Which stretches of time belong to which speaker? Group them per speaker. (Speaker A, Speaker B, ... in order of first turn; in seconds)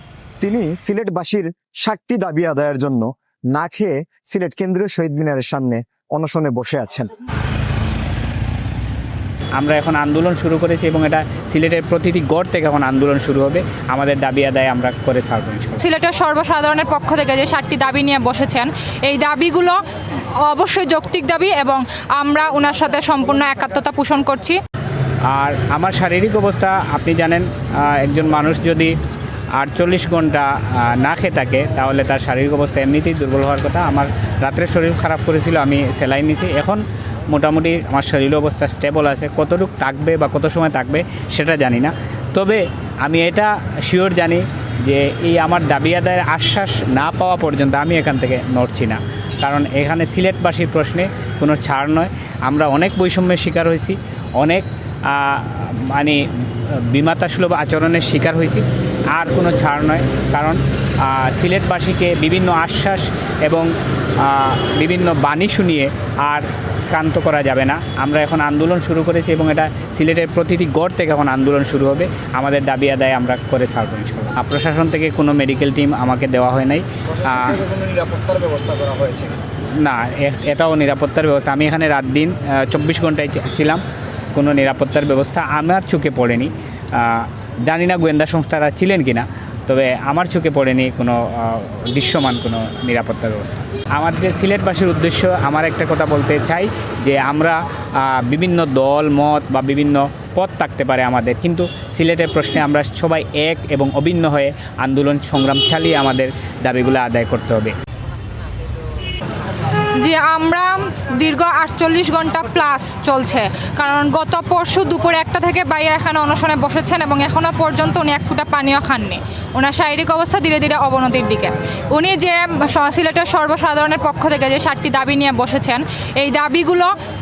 Speaker A: 0.4-7.1, 77.5-79.3
Speaker B: 9.6-15.8, 25.3-28.9, 29.6-56.2, 56.9-63.7, 64.2-77.6, 79.8-83.8, 84.3-107.7
Speaker C: 15.8-19.8, 20.4-24.6, 110.0-126.9